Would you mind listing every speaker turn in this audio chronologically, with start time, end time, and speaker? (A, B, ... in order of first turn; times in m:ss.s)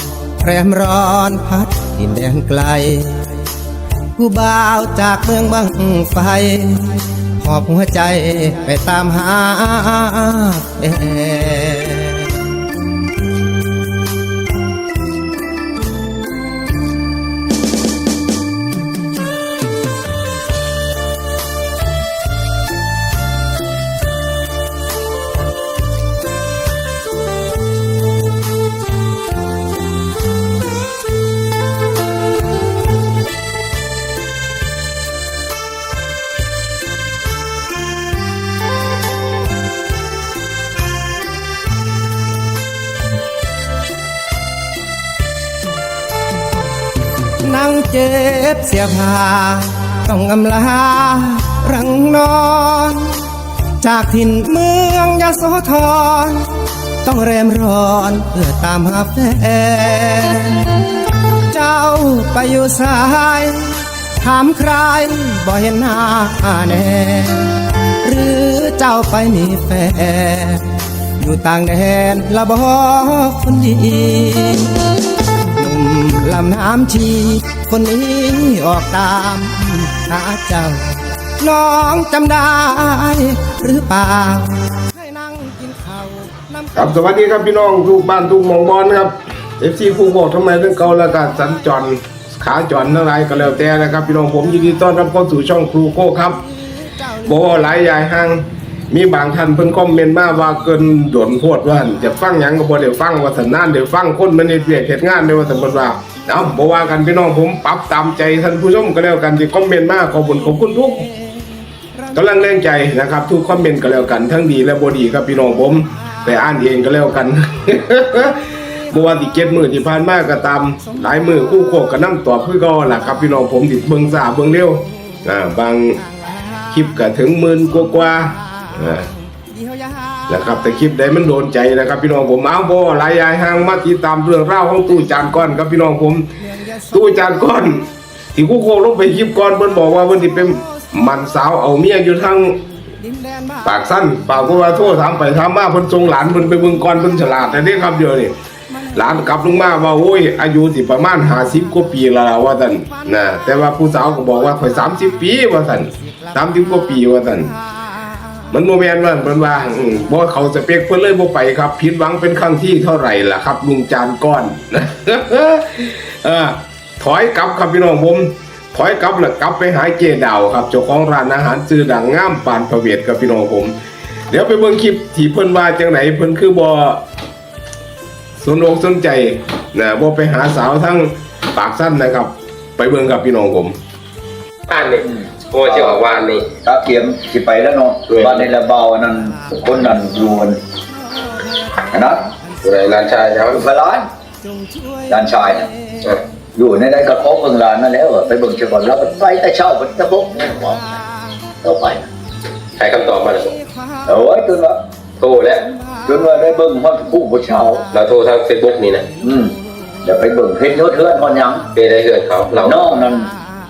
0:00.4-0:03.3 A
0:04.2-0:12.3 A
0:47.4-0:53.2 A
0:53.8-0:56.5 A
0:57.0-1:00.9 A
1:01.4-1:10.7 A
1:11.2-1:20.8 A
1:21.4-1:27.0 A
1:26.8-1:36.4 B
1:37.0-1:37.6 A
1:37.2-1:51.1 B
1:50.6-1:51.5 A
1:52.1-2:06.0 B
2:00.8-2:01.9 A
2:06.7-2:09.1 B
2:07.7-2:10.3 A
2:10.3-2:16.3 B
2:16.4-2:17.9 A
2:16.9-2:22.6 B
2:20.6-2:20.9 A
2:22.9-2:23.9 A
2:23.6-2:28.3 B
2:26.6-2:27.1 A
2:28.9-2:30.0 A
2:28.9-2:37.5 B
2:32.9-2:35.1 A
2:36.0-2:37.3 A
2:38.5-2:53.8 B
2:54.3-2:57.0 B
2:58.4-3:03.8 B
3:04.7-3:06.4 C
3:05.0-3:06.0 D
3:06.6-3:10.6 D
3:08.1-3:08.5 C
3:11.9-3:12.2 D
3:12.6-3:13.6 C
3:13.5-3:14.1 D
3:14.5-3:15.1 A
3:15.1-3:15.7 D
3:16.6-3:21.0 D
3:21.6-3:22.1 D
3:22.8-3:23.6 C
3:24.1-3:24.8 D
3:25.2-3:25.7 C
3:26.1-3:27.8 D
3:27.9-3:29.1 C
3:29.2-3:31.7 D
3:31.8-3:33.0 C
3:32.6-3:33.3 D